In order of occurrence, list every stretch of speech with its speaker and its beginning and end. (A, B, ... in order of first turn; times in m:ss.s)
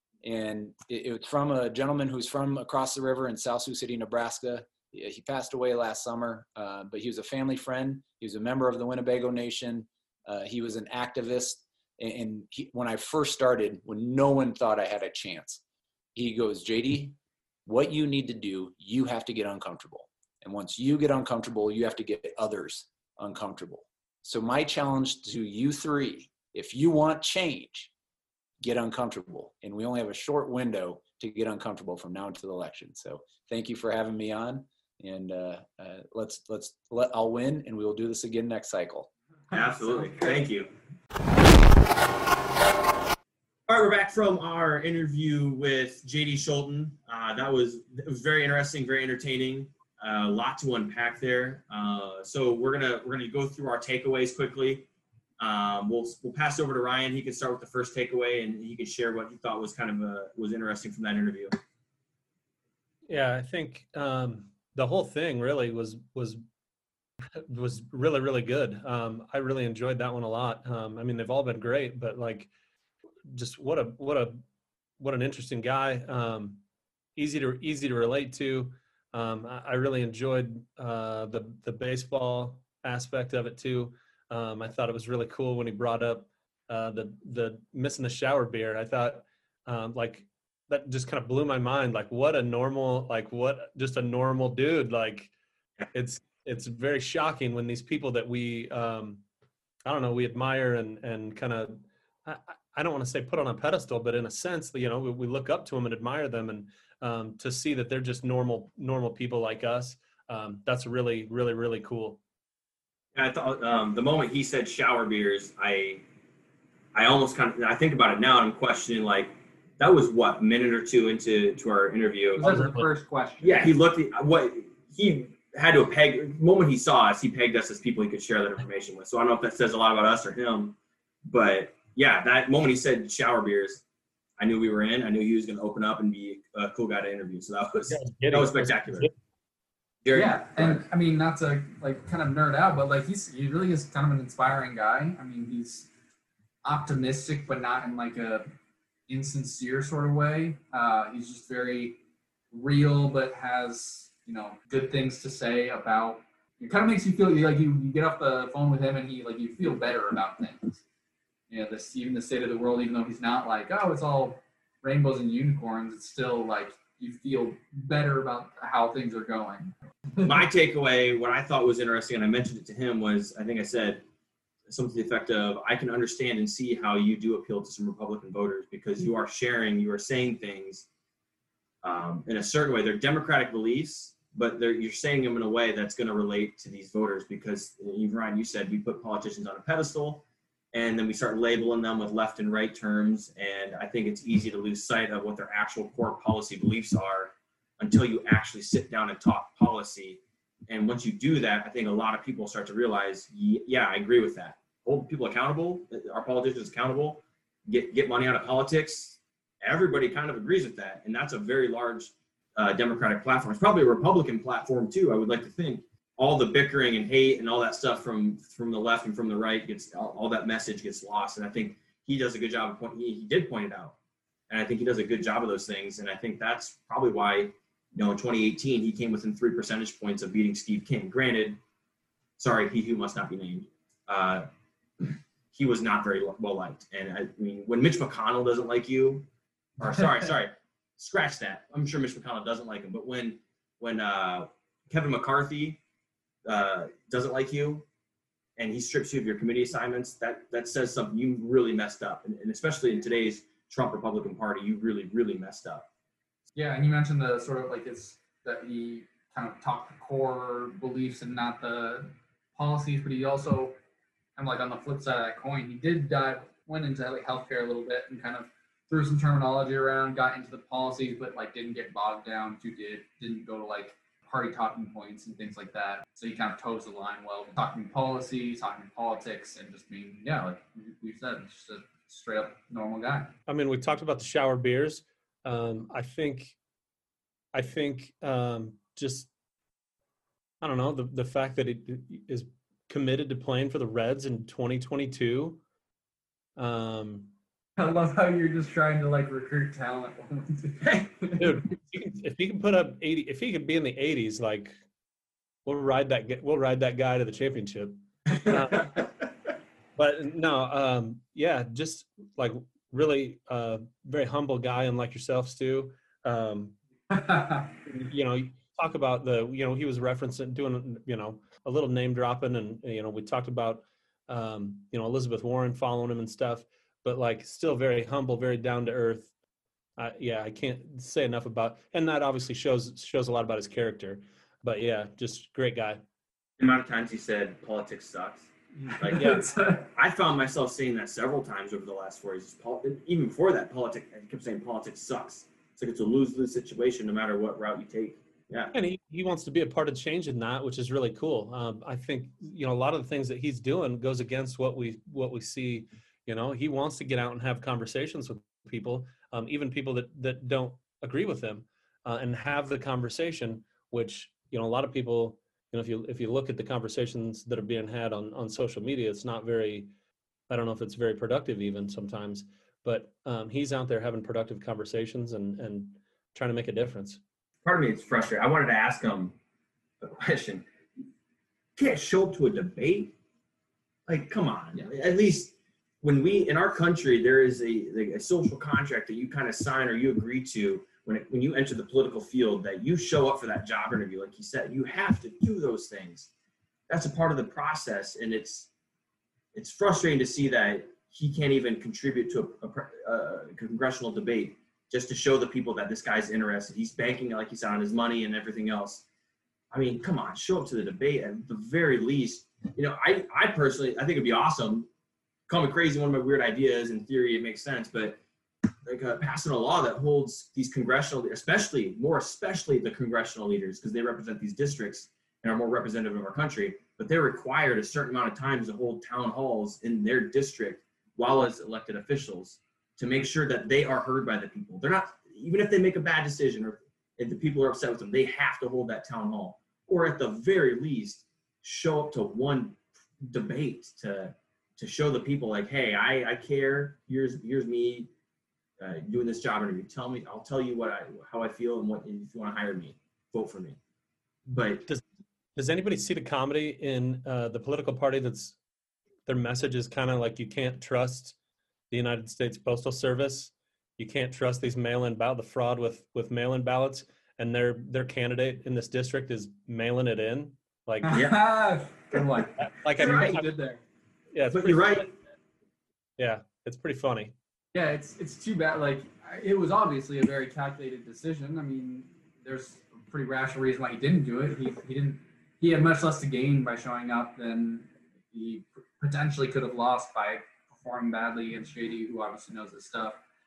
0:00.2-0:15.6 A
0:16.2-0:27.9 A
0:28.6-0:39.1 A
0:39.5-0:40.7 B
0:43.7-0:54.9 B
0:55.4-1:01.5 B
1:03.1-1:06.4 C
1:07.4-1:12.5 C
1:13.3-1:14.4 C
1:15.0-1:16.6 C
1:17.2-1:35.3 C
1:35.9-1:39.2 C
1:39.8-1:52.2 C
1:53.2-1:56.0 B
1:56.9-2:02.5 B
2:02.4-2:03.8 D
2:02.4-2:02.9 C
2:03.4-2:13.8 B
2:14.4-2:19.1 B
2:17.9-2:19.1 C
2:20.0-2:20.8 B
2:20.1-2:25.9 D
2:26.6-2:28.5 D
2:29.1-2:32.0 D
2:32.5-2:40.8 D
2:41.5-2:50.3 D
2:50.2-2:54.0 B
2:54.7-3:00.9 B
3:01.8-3:44.0 B
3:44.5-3:51.6 B
3:52.4-3:54.5 B
3:55.0-3:59.3 B
3:59.8-4:05.8 B
4:06.4-4:07.8 B
4:08.6-4:15.8 B
4:16.6-4:23.8 D
4:24.4-4:43.3 D
4:43.5-4:46.6 C
4:47.5-4:49.3 C
4:50.6-4:55.6 C
4:56.6-4:57.3 C
4:57.8-5:01.4 D
5:01.4-5:04.8 C
5:05.6-5:09.0 C
5:08.4-5:09.0 B
5:10.0-5:16.8 C
5:17.1-5:17.7 D
5:17.9-5:29.3 C
5:30.0-5:36.0 C
5:36.6-5:38.5 B
5:38.8-5:39.8 D
5:39.0-5:48.7 B
5:48.7-6:09.9 C
6:10.5-6:17.2 C
6:17.6-6:19.4 B
6:20.0-6:20.7 B
6:21.8-6:23.1 B
6:24.1-6:36.3 B
6:36.9-6:38.7 B
6:39.6-6:49.0 B
6:49.7-6:54.9 B
6:55.5-6:58.2 B
6:58.9-7:28.1 B
7:28.8-7:33.8 B
7:34.5-7:34.8 B
7:35.6-7:38.6 C
7:39.3-7:41.4 C
7:41.9-7:51.2 C
7:51.1-7:53.8 D
7:51.1-7:51.4 B
7:52.6-7:53.5 C
7:53.0-7:53.4 B
7:54.3-7:55.1 C
7:54.5-7:55.1 B
7:56.2-7:57.3 C
7:57.7-8:13.2 D